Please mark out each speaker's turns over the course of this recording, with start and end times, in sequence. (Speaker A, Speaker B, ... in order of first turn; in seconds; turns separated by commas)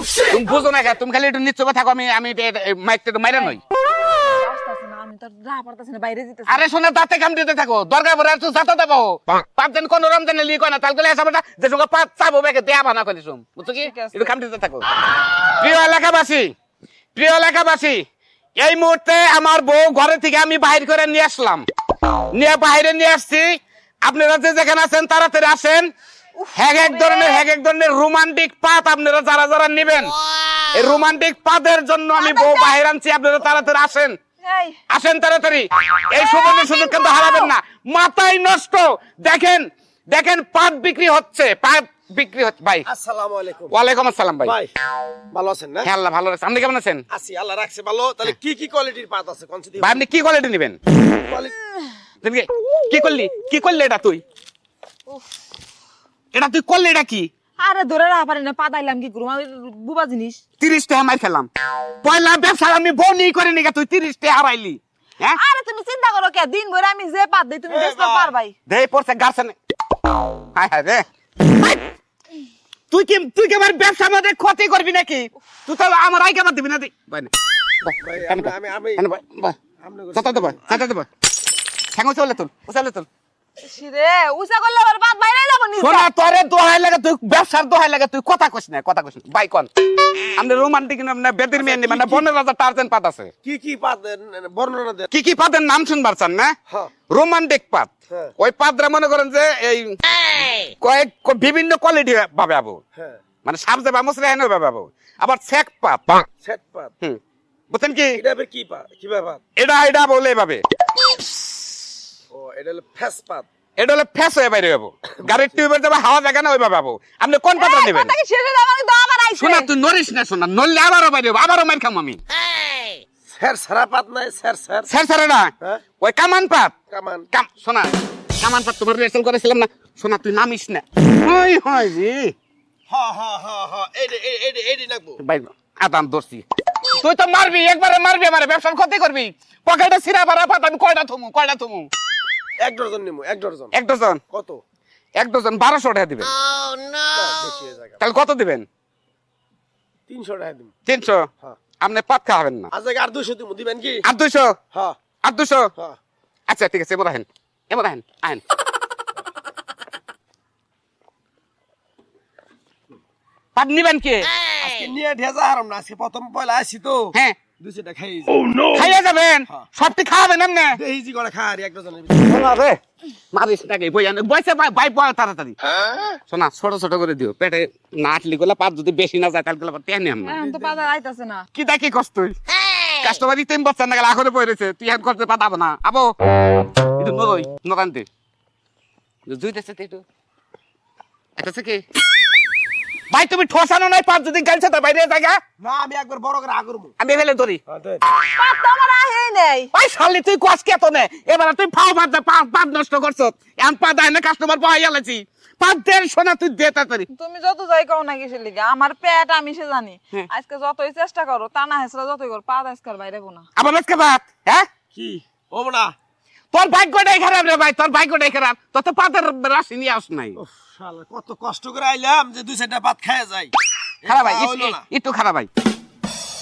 Speaker A: 0.3-3.6, Speaker B: 4.1-6.7, Speaker A: 6.5-14.8, Speaker B: 13.7-14.3, Speaker A: 15.5-16.5, Speaker A: 17.1-18.0, Speaker A: 18.6-21.7, Speaker A: 22.3-25.9, Speaker B: 26.4-27.5, Speaker A: 26.5-30.2, Speaker A: 30.7-34.2, Speaker B: 32.2-32.8, Speaker B: 34.4-34.8, Speaker A: 34.9-42.9, Speaker B: 36.2-37.5, Speaker C: 42.9-43.7, Speaker A: 43.7-44.5, Speaker C: 44.4-44.7, Speaker C: 45.3-45.9, Speaker A: 45.8-47.0, Speaker C: 47.1-50.0, Speaker A: 49.8-50.8, Speaker C: 51.1-51.5, Speaker A: 52.2-54.2, Speaker A: 56.3-57.3, Speaker B: 57.6-60.4, Speaker A: 60.6-61.5, Speaker A: 62.0-65.4, Speaker B: 65.4-68.5, Speaker C: 67.7-68.3, Speaker A: 68.7-69.6, Speaker A: 70.5-71.0, Speaker A: 72.9-79.6, Speaker C: 78.0-79.0, Speaker C: 79.8-80.7, Speaker A: 80.2-81.1, Speaker A: 81.9-83.1, Speaker B: 83.6-86.1, Speaker A: 85.8-93.3, Speaker C: 91.5-92.3, Speaker C: 93.4-95.1, Speaker A: 95.1-96.5, Speaker A: 97.1-100.0, Speaker A: 100.8-102.8, Speaker A: 103.5-106.3, Speaker C: 106.4-106.9, Speaker A: 107.7-108.2, Speaker C: 108.2-109.4, Speaker A: 109.6-110.6, Speaker C: 112.3-113.5, Speaker A: 113.8-118.1, Speaker B: 117.6-119.7, Speaker A: 119.4-122.2, Speaker C: 123.3-124.9, Speaker A: 124.9-126.8, Speaker C: 126.9-127.3, Speaker A: 127.3-132.3, Speaker C: 132.9-135.2, Speaker A: 135.2-136.4, Speaker A: 137.0-141.9, Speaker C: 142.6-143.7, Speaker A: 143.7-144.2, Speaker C: 144.3-144.6, Speaker A: 145.2-146.3, Speaker C: 147.1-148.0, Speaker A: 148.0-148.7, Speaker C: 150.1-150.7, Speaker A: 150.9-151.3, Speaker A: 151.8-152.7, Speaker C: 152.7-154.0, Speaker A: 154.0-154.6, Speaker A: 155.2-155.7, Speaker A: 156.5-158.4, Speaker A: 163.6-164.3, Speaker C: 164.6-169.7, Speaker A: 168.7-170.8, Speaker C: 170.8-172.3, Speaker A: 172.2-172.8, Speaker A: 173.3-175.6, Speaker C: 175.8-176.1, Speaker A: 176.3-180.4, Speaker B: 180.2-181.5, Speaker C: 180.4-180.9, Speaker A: 181.6-182.4, Speaker A: 182.9-186.1, Speaker A: 187.0-188.1, Speaker A: 189.3-190.1, Speaker A: 191.4-191.8, Speaker A: 193.1-195.4, Speaker C: 195.6-196.9, Speaker A: 197.0-197.6, Speaker C: 197.7-198.0, Speaker B: 198.3-199.7, Speaker A: 199.7-207.1, Speaker B: 207.1-213.5, Speaker A: 213.6-214.7, Speaker C: 214.9-215.9, Speaker A: 216.5-220.4, Speaker C: 220.4-224.9, Speaker A: 224.1-225.5